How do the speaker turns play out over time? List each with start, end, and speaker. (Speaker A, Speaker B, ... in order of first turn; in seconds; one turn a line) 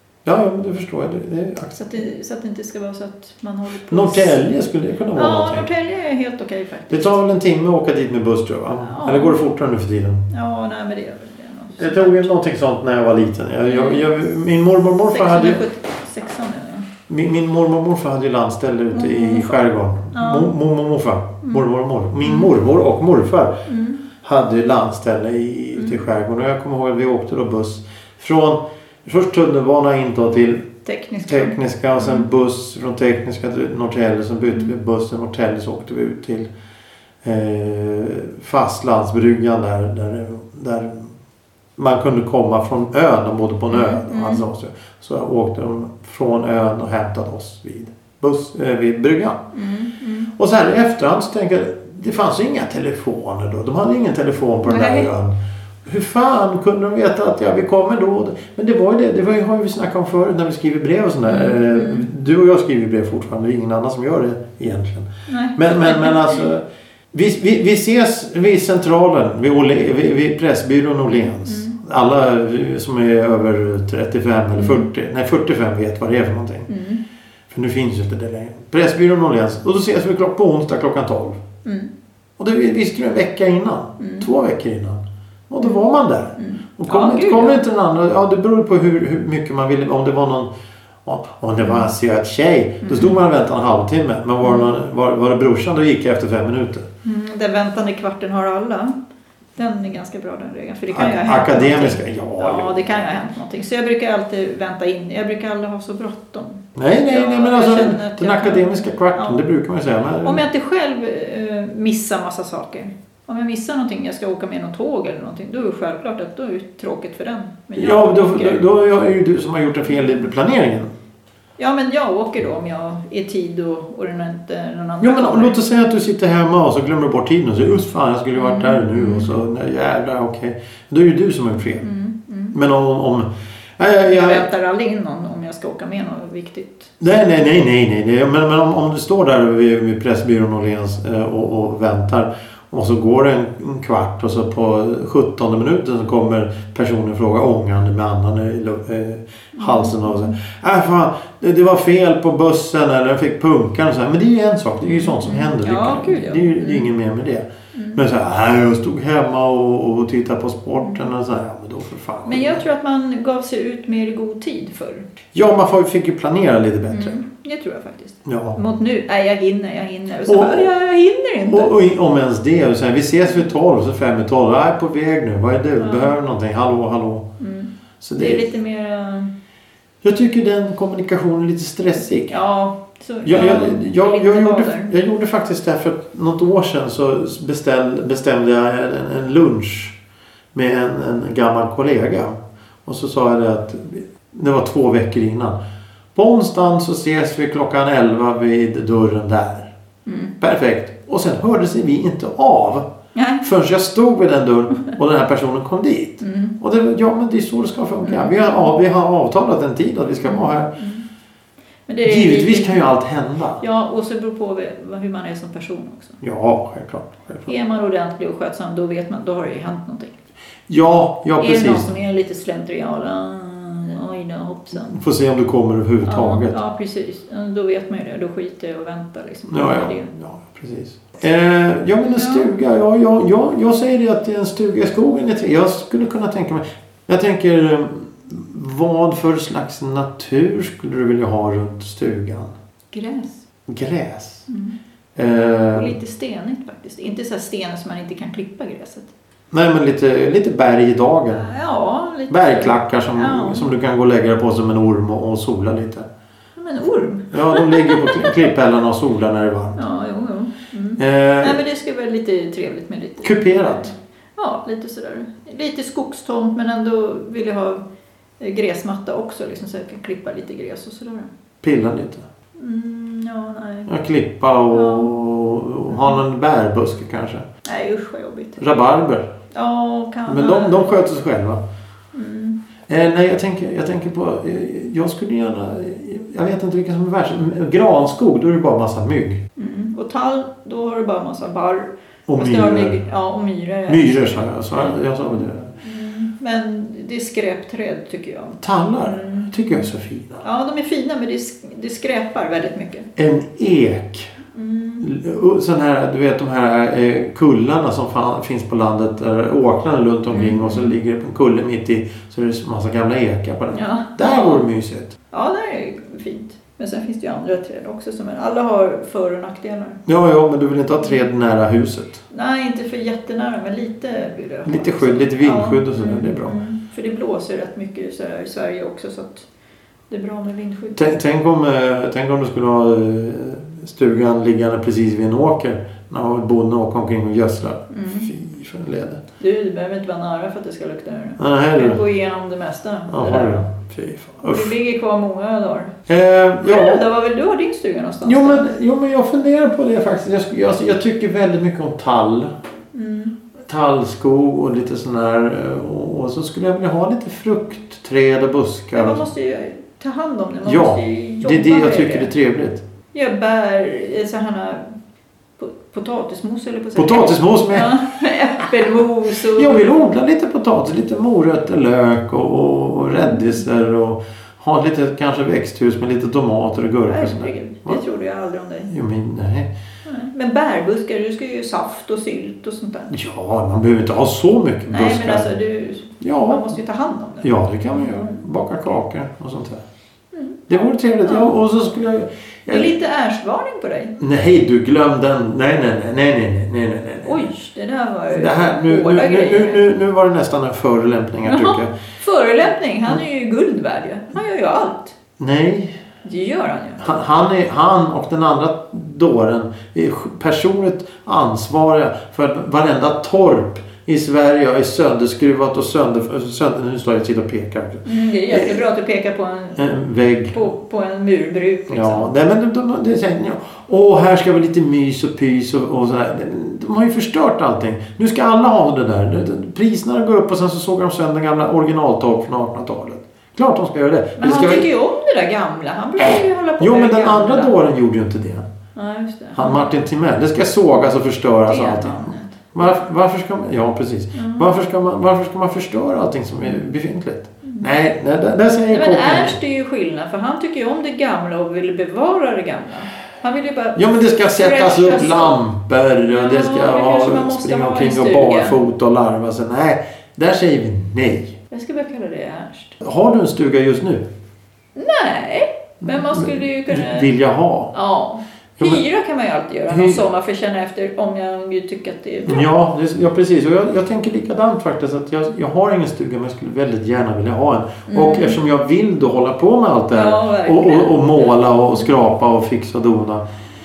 Speaker A: 0.2-2.0
Speaker B: 1.8-4.4
Speaker A: 3.9-5.7
Speaker B: 5.2-7.2
Speaker A: 6.9-10.3
Speaker B: 8.8-9.4
Speaker B: 10.3-12.3
Speaker A: 11.8-15.6
Speaker B: 13.7-14.2
Speaker B: 15.1-16.9
Speaker A: 17.1-23.6
Speaker B: 18.9-20.5
Speaker B: 22.2-22.5
Speaker B: 23.7-24.1
Speaker A: 24.2-30.7
Speaker B: 30.9-32.3
Speaker A: 31.3-36.5
Speaker A: 37.2-41.1
Speaker A: 41.8-49.4
Speaker B: 43.7-44.4
Speaker B: 49.5-50.3
Speaker A: 50.4-55.3
Speaker B: 54.6-55.1
Speaker A: 55.9-76.7
Speaker B: 61.2-62.1
Speaker B: 65.3-66.4
Speaker B: 71.1-71.8
Speaker B: 74.5-74.9
Speaker B: 76.7-77.0
Speaker A: 77.5-81.4
Speaker B: 81.7-81.9
Speaker A: 82.4-90.5
Speaker B: 84.0-84.3
Speaker B: 86.4-87.6
Speaker A: 91.0-96.9
Speaker B: 91.6-91.9
Speaker B: 92.8-93.2
Speaker B: 94.4-94.7
Speaker B: 97.0-99.0
Speaker B: 99.6-109.4
Speaker A: 100.9-102.8
Speaker A: 106.8-110.4
Speaker B: 110.2-118.6
Speaker A: 117.8-120.9
Speaker B: 121.6-125.6
Speaker A: 125.0-131.9
Speaker B: 128.3-129.3
Speaker B: 131.8-132.6
Speaker A: 132.5-134.5
Speaker B: 134.0-136.9
Speaker A: 137.0-162.7
Speaker B: 149.6-150.3
Speaker B: 154.8-156.9
Speaker B: 157.7-158.0
Speaker B: 160.8-161.1
Speaker B: 162.3-165.1
Speaker A: 165.3-167.2
Speaker B: 166.9-171.7
Speaker A: 168.2-168.6
Speaker A: 170.3-170.7
Speaker A: 171.5-177.3
Speaker B: 175.8-176.1
Speaker B: 177.4-179.3
Speaker A: 178.0-178.4
Speaker A: 180.0-182.4
Speaker B: 182.3-184.9
Speaker A: 183.2-190.0
Speaker A: 190.5-195.6
Speaker A: 196.2-199.7
Speaker B: 200.1-200.3
Speaker A: 200.4-202.9
Speaker B: 203.2-203.4
Speaker A: 203.4-210.7
Speaker B: 206.2-206.6
Speaker B: 208.0-208.8
Speaker B: 210.2-211.1
Speaker B: 211.9-212.9
Speaker A: 212.1-213.6
Speaker B: 213.6-216.2
Speaker A: 216.2-217.5
Speaker B: 217.5-220.2
Speaker A: 220.7-221.9
Speaker B: 221.4-225.0
Speaker A: 224.8-226.6
Speaker B: 226.0-230.1
Speaker A: 229.5-242.5
Speaker B: 232.1-232.5
Speaker B: 242.9-243.4
Speaker A: 243.7-244.5
Speaker B: 244.5-244.8
Speaker A: 245.2-245.9
Speaker B: 245.7-249.1
Speaker A: 249.5-251.5
Speaker B: 251.3-253.7
Speaker A: 252.3-256.1
Speaker B: 256.6-258.5
Speaker A: 257.3-259.8
Speaker B: 259.8-267.8
Speaker A: 261.0-261.6
Speaker A: 263.2-263.9
Speaker B: 268.4-271.3
Speaker A: 271.6-272.3
Speaker B: 272.6-273.9
Speaker A: 273.9-277.5
Speaker B: 274.7-275.1
Speaker B: 275.9-276.2
Speaker B: 277.6-278.6
Speaker A: 278.6-279.3
Speaker B: 279.5-280.9
Speaker A: 280.3-281.6
Speaker B: 282.1-282.6
Speaker A: 282.9-289.4
Speaker B: 289.6-294.5
Speaker A: 292.3-293.0
Speaker A: 293.9-295.7
Speaker B: 295.3-299.9
Speaker A: 298.6-300.4
Speaker B: 300.4-303.1
Speaker A: 303.2-304.3
Speaker B: 304.5-305.1
Speaker A: 305.0-315.2
Speaker B: 310.3-311.0
Speaker B: 313.7-314.6
Speaker B: 315.3-320.0
Speaker A: 320.1-322.2
Speaker B: 322.3-329.5
Speaker A: 324.7-326.6
Speaker B: 330.1-331.0
Speaker A: 331.0-339.2
Speaker B: 337.9-338.3
Speaker B: 339.4-343.7
Speaker A: 341.4-342.0
Speaker A: 343.1-344.7
Speaker B: 344.4-345.9
Speaker A: 346.1-347.0
Speaker B: 346.6-348.7
Speaker A: 348.2-352.5
Speaker B: 352.9-353.4
Speaker A: 353.7-359.2
Speaker B: 358.9-362.3
Speaker A: 360.6-362.8
Speaker B: 363.1-364.8
Speaker B: 365.6-369.9
Speaker A: 367.0-368.0
Speaker A: 369.4-378.0
Speaker B: 373.2-373.6
Speaker B: 377.1-378.9
Speaker A: 378.9-379.7
Speaker B: 380.1-383.2
Speaker A: 383.1-385.5
Speaker B: 384.9-388.4
Speaker A: 386.2-386.8
Speaker A: 387.4-389.8
Speaker B: 390.3-391.5
Speaker A: 390.7-392.9
Speaker B: 392.7-394.2
Speaker A: 394.2-397.5
Speaker B: 397.2-399.9
Speaker A: 398.3-401.9
Speaker B: 401.4-405.1
Speaker A: 405.4-406.0
Speaker B: 406.2-407.1
Speaker A: 407.0-418.8
Speaker B: 418.1-420.0
Speaker A: 419.8-420.7
Speaker B: 420.5-422.3
Speaker A: 421.9-434.9
Speaker B: 434.4-437.8
Speaker A: 436.2-438.6
Speaker B: 439.0-439.9
Speaker A: 439.6-449.6
Speaker B: 441.7-442.9
Speaker B: 444.4-444.7
Speaker B: 448.9-455.6
Speaker A: 453.9-461.6
Speaker B: 456.3-458.8
Speaker B: 461.7-463.0
Speaker A: 463.0-464.2
Speaker B: 465.0-467.3
Speaker A: 466.0-467.9
Speaker B: 467.9-472.7
Speaker A: 468.8-469.0
Speaker A: 469.9-470.2
Speaker A: 472.4-483.4
Speaker B: 478.1-478.6
Speaker B: 480.1-481.6